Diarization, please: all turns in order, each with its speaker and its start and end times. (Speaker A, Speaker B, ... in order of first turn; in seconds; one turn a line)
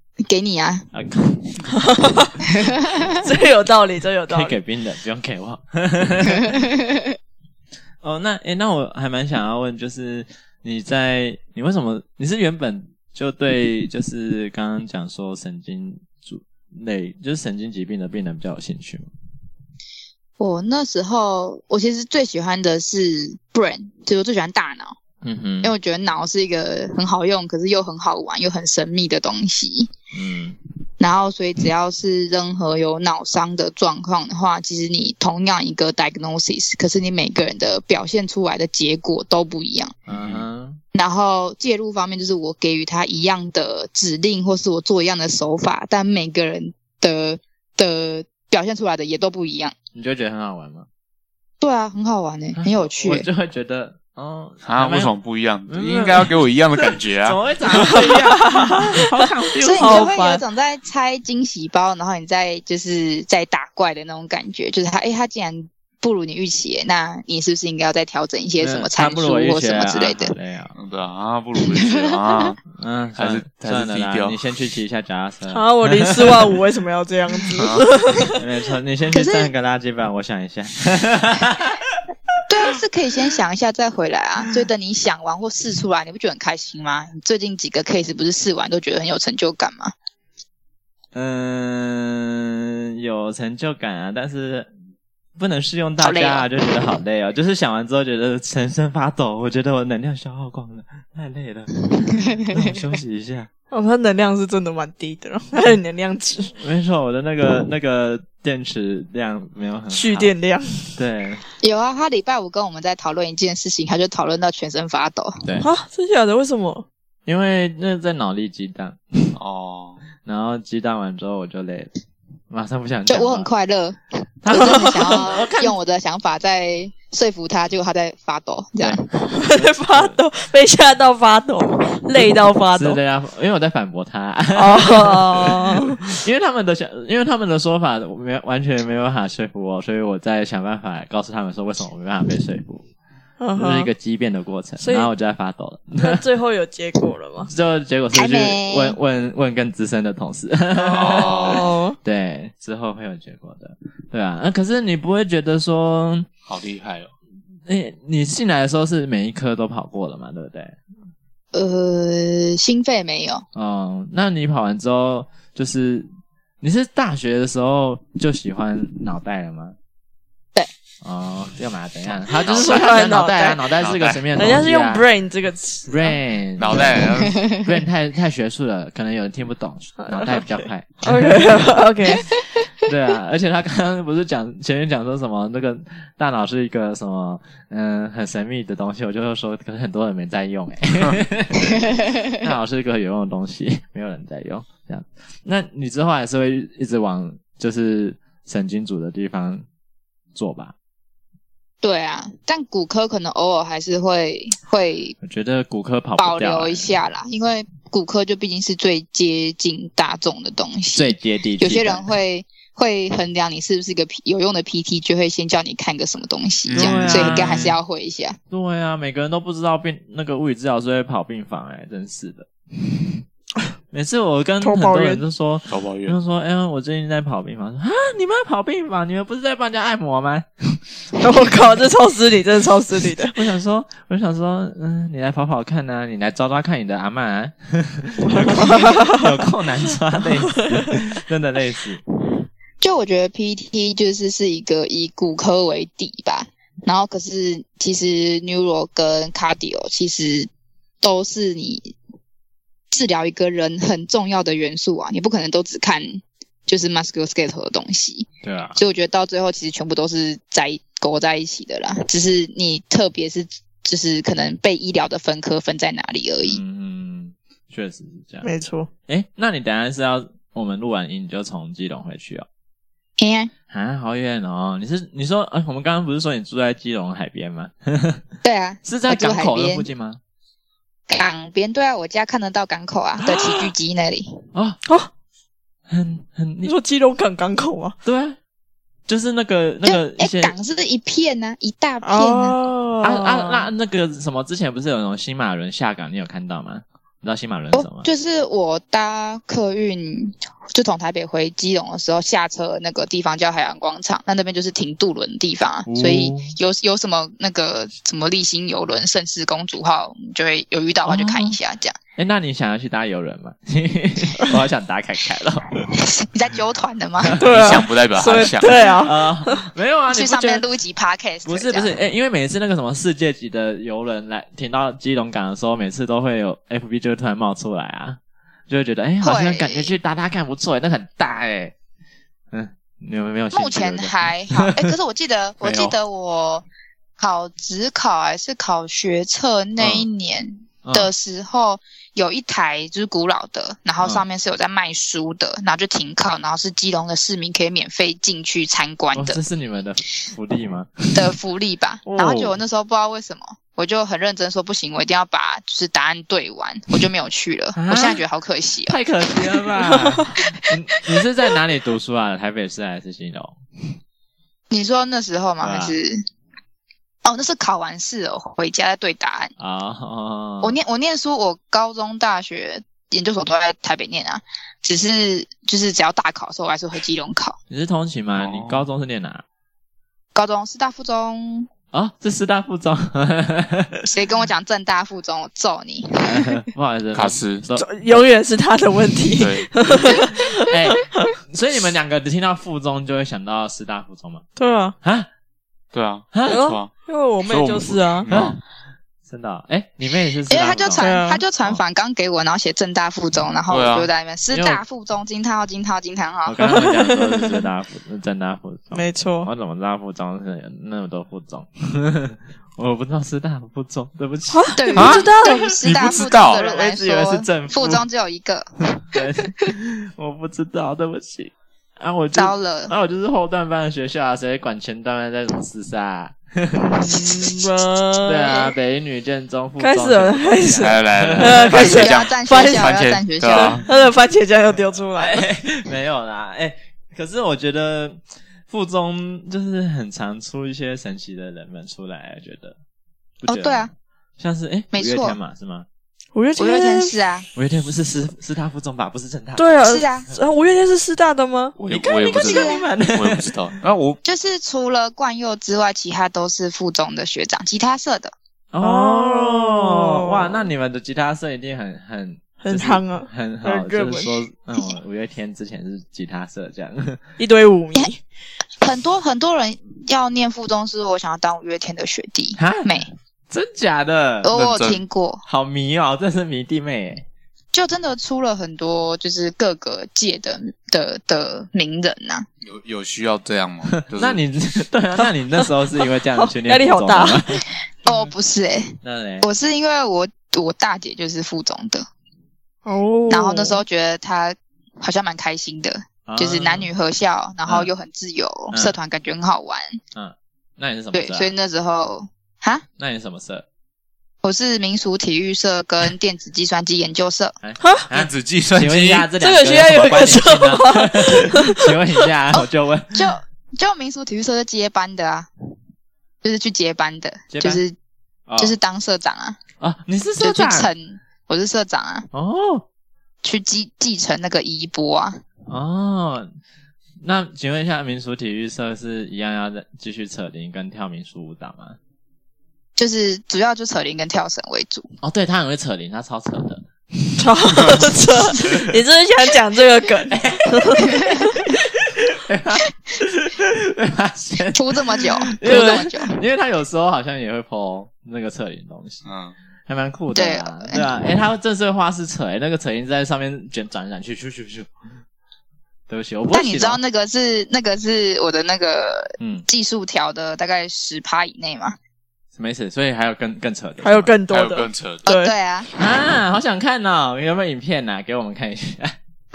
Speaker A: 0.2-0.9
Speaker B: 0.9-1.5
Speaker C: 1.7-2.4
Speaker A: 2.6-3.0
Speaker C: 3.2-4.6
Speaker B: 4.3-6.6
Speaker B: 8.0-19.1
Speaker A: 20.4-24.9
Speaker B: 25.2-25.7
Speaker A: 25.6-29.9
Speaker B: 30.1-30.6
Speaker A: 31.0-39.9
Speaker B: 40.1-40.8
Speaker D: 40.1-40.4
Speaker A: 41.0-49.7
Speaker B: 49.9-50.9
Speaker A: 51.6-53.3
Speaker B: 52.6-55.1
Speaker D: 54.6-57.4
Speaker B: 55.7-60.4
Speaker C: 57.7-59.0
Speaker A: 59.6-70.3
Speaker C: 59.8-60.1
Speaker B: 68.6-70.7
Speaker D: 70.7-72.6
Speaker A: 71.6-72.5
Speaker B: 72.7-76.5
Speaker D: 73.2-74.4
Speaker C: 75.5-78.3
Speaker D: 77.6-77.9
Speaker B: 78.3-82.7
Speaker A: 79.1-79.5
Speaker A: 82.5-89.9
Speaker B: 91.1-94.7
Speaker B: 95.4-103.5
Speaker A: 96.0-96.5
Speaker A: 102.0-102.6
Speaker C: 103.7-106.5
Speaker B: 106.6-110.3
Speaker C: 109.9-111.0
Speaker B: 111.0-111.4
Speaker A: 111.6-115.4
Speaker B: 115.4-115.7
Speaker C: 115.6-116.8
Speaker B: 117.3-119.3
Speaker D: 119.3-120.0
Speaker B: 120.2-121.9
Speaker B: 122.5-123.5
Speaker A: 123.1-129.0
Speaker B: 124.4-125.8
Speaker C: 124.5-125.3
Speaker B: 128.8-130.2
Speaker C: 129.3-133.0
Speaker B: 132.7-142.8
Speaker C: 134.6-136.1
Speaker C: 143.4-143.9
Speaker B: 143.6-146.2
Speaker C: 144.8-145.1
Speaker C: 146.0-147.5
Speaker B: 147.4-156.3
Speaker A: 148.1-149.0
Speaker D: 150.9-151.7
Speaker C: 150.9-152.0
Speaker D: 156.5-157.1
Speaker B: 157.7-160.8
Speaker A: 161.5-163.4
Speaker B: 163.6-166.1
Speaker B: 166.6-169.8
Speaker B: 171.0-175.1
Speaker D: 172.3-173.1
Speaker C: 172.6-173.6
Speaker D: 173.7-174.3
Speaker C: 174.4-176.2
Speaker B: 175.9-177.1
Speaker D: 176.6-177.4
Speaker A: 177.3-177.6
Speaker B: 177.6-181.5
Speaker C: 180.0-180.4
Speaker C: 181.0-182.3
Speaker B: 182.8-199.6
Speaker A: 191.9-192.3
Speaker B: 200.4-200.7
Speaker A: 201.8-205.2
Speaker B: 205.2-206.9
Speaker A: 206.2-218.4
Speaker B: 210.9-212.1
Speaker D: 216.7-217.8
Speaker B: 216.7-217.7
Speaker B: 218.5-223.1
Speaker B: 223.9-230.8
Speaker C: 224.6-225.2
Speaker D: 225.7-226.2
Speaker C: 231.2-233.3
Speaker B: 233.2-242.0
Speaker C: 238.3-239.2
Speaker A: 242.8-250.5
Speaker A: 251.0-251.9
Speaker A: 252.9-266.6
Speaker B: 258.4-258.8
Speaker B: 266.4-268.5
Speaker C: 268.4-268.9
Speaker B: 269.1-272.4
Speaker A: 273.2-273.5
Speaker B: 273.7-278.2
Speaker A: 278.4-279.9
Speaker B: 278.8-280.2
Speaker A: 281.1-284.4
Speaker B: 284.5-284.8
Speaker B: 285.9-286.8
Speaker C: 286.6-287.9
Speaker B: 288.1-288.4
Speaker B: 289.1-290.6
Speaker A: 289.9-292.6
Speaker C: 292.0-293.7
Speaker B: 293.0-298.1
Speaker A: 297.7-311.9
Speaker B: 305.9-306.6
Speaker B: 311.1-311.6
Speaker B: 312.2-315.9
Speaker A: 315.9-317.4
Speaker C: 317.4-319.6
Speaker D: 317.4-318.9
Speaker B: 319.0-320.6
Speaker A: 320.1-321.9
Speaker B: 321.4-331.7
Speaker A: 329.2-329.9
Speaker B: 332.5-334.9
Speaker A: 333.5-336.6
Speaker B: 335.6-335.9
Speaker A: 337.2-349.4
Speaker B: 339.8-340.1
Speaker B: 340.8-341.1
Speaker B: 349.1-351.3
Speaker A: 351.1-359.0
Speaker B: 352.1-352.6
Speaker B: 357.7-358.2
Speaker B: 358.9-363.6
Speaker A: 364.7-366.2
Speaker B: 365.6-366.0
Speaker A: 367.2-369.5
Speaker B: 369.6-370.7
Speaker A: 370.6-377.6
Speaker B: 377.7-379.4
Speaker D: 378.4-378.8
Speaker A: 380.4-381.7
Speaker B: 381.9-384.1
Speaker A: 384.1-386.5
Speaker B: 386.2-387.9
Speaker D: 387.1-387.6
Speaker C: 387.8-391.3
Speaker D: 389.4-389.7
Speaker B: 390.7-394.4
Speaker C: 394.6-394.9
Speaker B: 395.0-395.3
Speaker D: 395.9-396.9
Speaker B: 396.3-396.6
Speaker C: 396.5-398.3
Speaker D: 397.4-398.6
Speaker B: 398.3-398.6
Speaker B: 399.3-401.1
Speaker A: 400.5-406.7
Speaker C: 401.0-401.4
Speaker D: 403.7-404.1
Speaker B: 404.5-404.8
Speaker B: 406.4-415.0
Speaker C: 406.7-407.4
Speaker C: 408.9-409.5
Speaker C: 414.5-415.5
Speaker A: 414.8-419.2
Speaker D: 414.9-416.7
Speaker B: 416.6-418.0
Speaker B: 418.9-427.4
Speaker A: 422.4-422.9
Speaker C: 426.7-428.7
Speaker B: 428.2-432.0
Speaker C: 429.8-432.9
Speaker D: 430.8-433.9
Speaker A: 431.7-433.8
Speaker C: 433.5-435.4
Speaker B: 435.2-442.8
Speaker B: 443.4-445.9
Speaker A: 443.5-443.9
Speaker A: 444.9-445.4
Speaker C: 446.3-447.2
Speaker A: 446.6-447.5
Speaker B: 447.6-449.7
Speaker C: 449.6-451.7
Speaker A: 449.8-450.3
Speaker D: 451.8-454.2
Speaker B: 451.9-453.5
Speaker A: 452.4-452.9
Speaker A: 454.2-458.3
Speaker B: 458.7-467.2
Speaker C: 458.8-460.7
Speaker C: 462.6-464.4
Speaker C: 467.4-468.2
Speaker A: 468.8-473.1
Speaker B: 472.6-474.5
Speaker A: 474.4-475.4
Speaker D: 474.5-475.0
Speaker B: 475.4-477.2
Speaker A: 477.7-482.5
Speaker D: 482.6-484.4
Speaker B: 483.9-487.7
Speaker C: 486.6-487.4
Speaker A: 488.0-492.1
Speaker B: 489.0-489.5
Speaker C: 492.9-493.8
Speaker A: 493.3-500.0
Speaker B: 496.3-496.9
Speaker B: 497.7-497.9
Speaker B: 498.7-498.9
Speaker B: 500.1-501.5
Speaker A: 501.1-502.9
Speaker B: 503.0-503.6
Speaker A: 504.4-507.6
Speaker B: 507.6-513.4
Speaker D: 508.1-509.3
Speaker C: 509.4-511.9
Speaker A: 513.1-515.5
Speaker A: 516.4-518.0
Speaker B: 517.5-517.8
Speaker B: 518.5-518.8
Speaker A: 518.6-519.6
Speaker B: 519.8-520.9
Speaker A: 520.4-522.3
Speaker B: 522.3-522.9
Speaker A: 523.4-525.4
Speaker B: 525.7-526.5
Speaker B: 527.2-532.0
Speaker A: 533.0-535.1
Speaker B: 535.2-538.9
Speaker C: 537.4-541.5
Speaker B: 540.3-549.2
Speaker A: 544.7-546.4
Speaker C: 545.7-546.0
Speaker D: 549.2-549.5
Speaker B: 549.9-554.9
Speaker A: 550.3-551.1
Speaker B: 556.1-557.0
Speaker A: 556.5-562.0
Speaker B: 559.4-559.7
Speaker B: 562.6-564.4
Speaker C: 564.0-565.5
Speaker D: 564.5-565.3
Speaker A: 565.3-565.9
Speaker B: 566.0-569.2